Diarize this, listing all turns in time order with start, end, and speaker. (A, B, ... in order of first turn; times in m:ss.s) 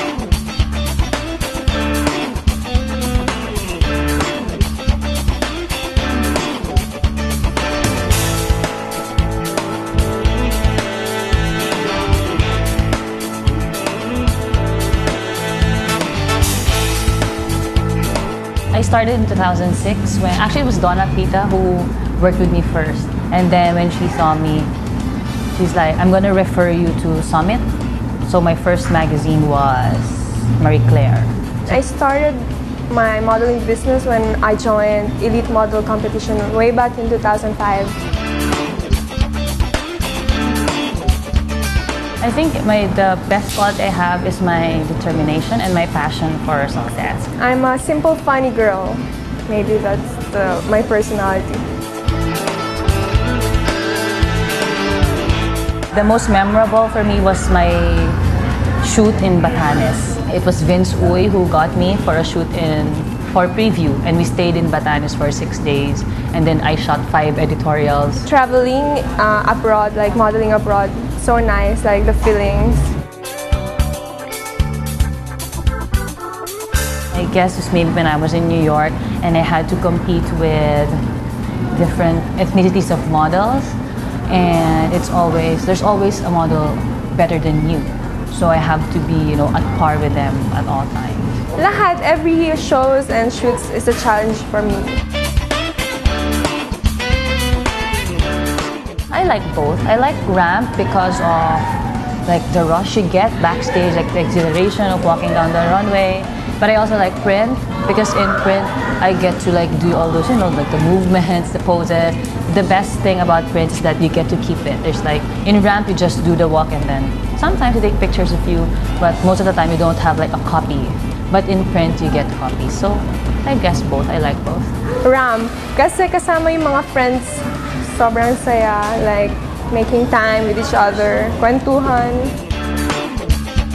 0:18.7-0:24.7 A
0:25.5-0:27.6 A
0:28.2-0:31.8 A
0:31.7-0:38.0 B
0:42.2-0:47.3 A
0:47.4-0:51.6 B
0:55.9-0:58.2 A
0:58.8-1:08.3 A
1:08.2-1:12.9 B
1:17.1-1:21.0 A
1:21.7-1:23.7 A
1:24.3-1:31.4 A
1:31.6-1:35.0 B
1:39.1-2:04.8 A
2:05.0-2:12.4 B